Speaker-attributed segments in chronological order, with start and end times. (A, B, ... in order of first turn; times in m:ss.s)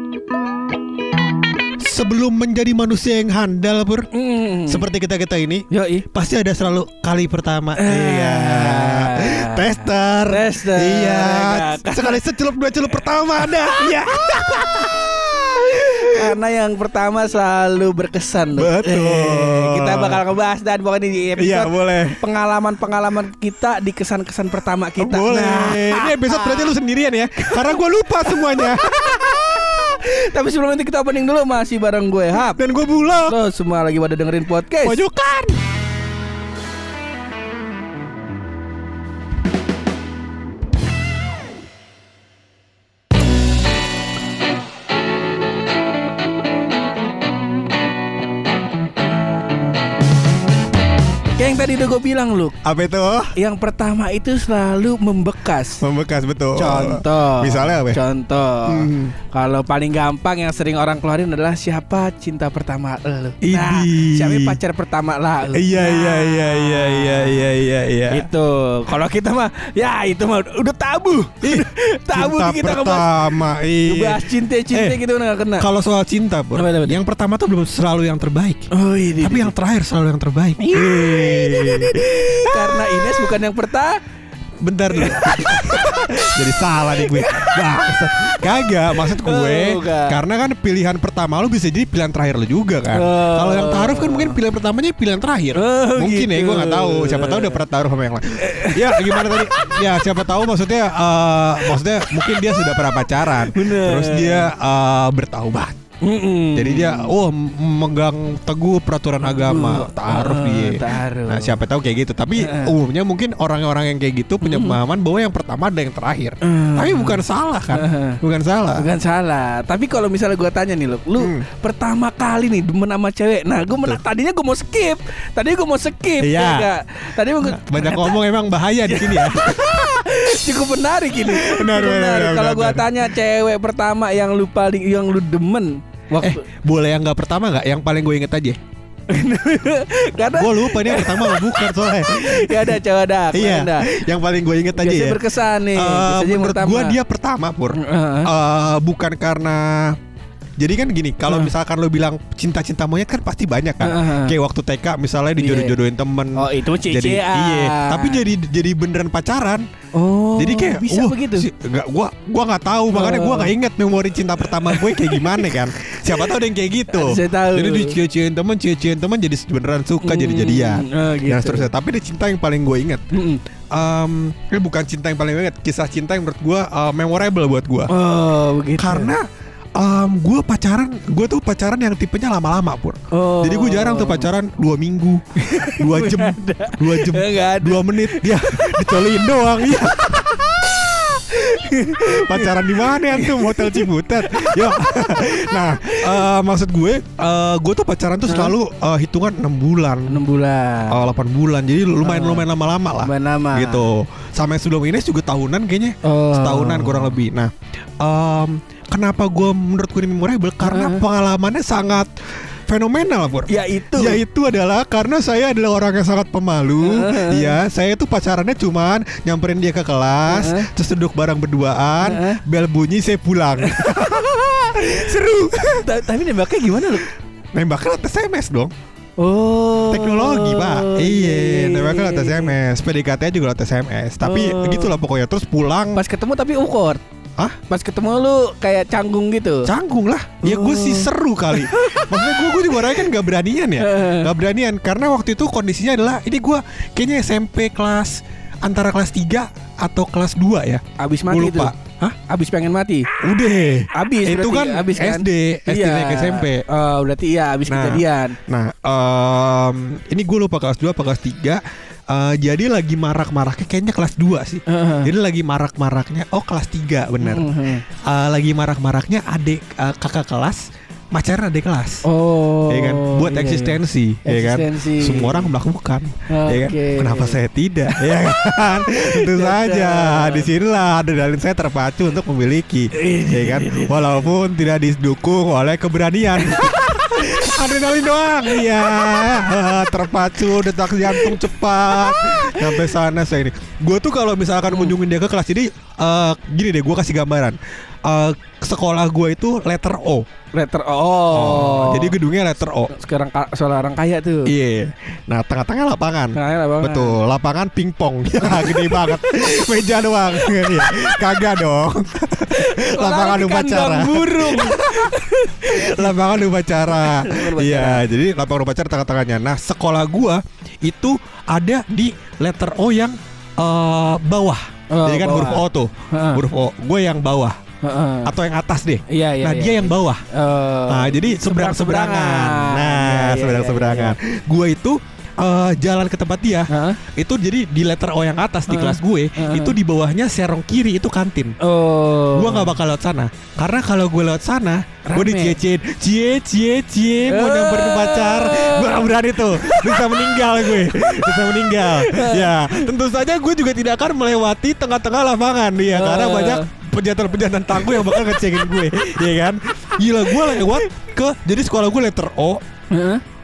0:01.8-0:04.1 A
0:04.1-0:04.8 B
0:04.7-0:16.4 A
0:05.7-0:06.0 B
0:07.8-0:12.2 B
0:13.0-0:15.2 B
0:15.7-0:26.7 B
0:18.6-0:20.2 A
0:21.4-0:22.2 A
0:25.0-0:29.7 A
0:27.4-0:32.6 B
0:32.4-0:33.4 A
0:33.3-0:35.0 B
0:34.8-0:35.6 A
0:51.4-0:52.5 B
0:52.6-0:53.3 A
0:53.4-0:55.8 B
0:55.8-0:58.0 A
0:56.6-1:07.6 B
0:58.6-0:59.2 A
1:03.4-1:04.6 A
1:05.5-1:08.3 A
1:08.1-1:15.7 B
1:11.4-1:15.0 A
1:15.6-1:23.3 A
1:16.5-1:17.0 B
1:18.7-1:19.6 B
1:20.6-1:24.0 B
1:24.6-1:45.8 A
1:24.9-1:30.2 B
1:32.9-1:34.4 B
1:35.5-1:37.6 B
1:38.3-1:39.9 B
1:43.3-1:44.5 B
1:46.0-1:47.1 B
1:46.5-1:58.9 A
1:49.2-1:51.6 B
1:52.4-1:52.7 B
1:54.4-1:54.8 B
1:56.4-1:58.2 B
1:58.7-2:08.2 B
2:01.2-2:01.5 A
2:06.2-2:06.7 A
2:07.4-2:10.0 A
2:08.8-2:16.4 B
2:11.1-2:13.1 A
2:16.2-2:18.6 A
2:19.1-2:24.0 B
2:20.3-2:22.8 A
2:23.3-2:30.0 A
2:24.7-2:27.0 B
2:27.8-2:28.3 B
2:30.6-2:39.6 A
2:31.2-2:31.5 B
2:33.8-2:34.3 B
2:35.4-2:35.8 B
2:36.4-2:38.2 B
2:39.9-2:41.5 B
2:40.4-2:53.0 A
2:42.9-2:43.5 B
2:44.4-2:45.6 B
2:46.9-2:48.0 B
2:50.0-2:51.7 B
2:53.1-2:53.4 B
2:53.7-2:57.9 A
2:57.9-2:59.2 B
2:58.8-2:59.2 A
2:59.8-3:10.5 A
3:03.1-3:04.3 B
3:05.4-3:16.2 B
3:12.0-3:20.2 A
3:18.3-3:18.5 B
3:20.1-3:21.0 B
3:20.9-3:32.1 A
3:22.0-3:22.4 B
3:23.0-3:23.8 B
3:26.0-3:27.2 B
3:30.6-3:31.0 B
3:32.7-3:46.0 A
3:33.5-3:34.2 B
3:36.8-3:37.6 B
3:40.3-3:40.7 B
3:42.0-3:42.4 B
3:43.6-3:47.1 B
3:47.5-3:48.7 A
3:49.2-3:52.5 B
3:49.9-3:56.0 A
3:54.2-3:54.9 B
3:55.9-3:57.0 B
3:57.7-3:59.7 B
3:59.6-4:12.1 A
4:00.4-4:03.1 B
4:03.8-4:04.3 B
4:11.0-4:13.1 B
4:13.2-4:16.6 A
4:13.9-4:18.4 B
4:17.7-4:27.5 A
4:24.7-4:25.1 B
4:27.2-4:27.8 B
4:28.1-4:30.6 A
4:31.1-4:32.0 A
4:32.0-4:35.5 B
4:32.7-5:00.2 A
4:36.3-4:37.4 B
4:39.0-4:40.5 B
4:42.9-4:44.2 B
4:46.4-4:46.7 B
4:48.5-4:48.9 B
4:51.1-4:51.4 B
4:52.0-4:52.9 B
4:54.7-4:54.9 B
5:00.5-5:02.2 B
5:01.3-5:02.9 A
5:02.9-5:04.5 B
5:04.5-5:27.6 A
5:06.3-5:07.2 B
5:08.4-5:09.4 B
5:10.4-5:11.2 B
5:12.5-5:16.2 B
5:16.9-5:18.0 B
5:24.9-5:26.4 B
5:27.8-5:28.3 B
5:28.2-5:30.2 A
5:29.1-5:34.2 B
5:30.9-5:41.6 A
5:36.7-5:37.0 B
5:38.7-5:39.8 B
5:41.6-5:42.7 B
5:42.3-6:02.6 A
5:45.0-5:45.6 B
5:47.3-5:52.9 B
5:55.8-5:56.7 B
5:57.8-5:58.4 B
6:00.2-6:00.9 B
6:02.9-6:03.2 B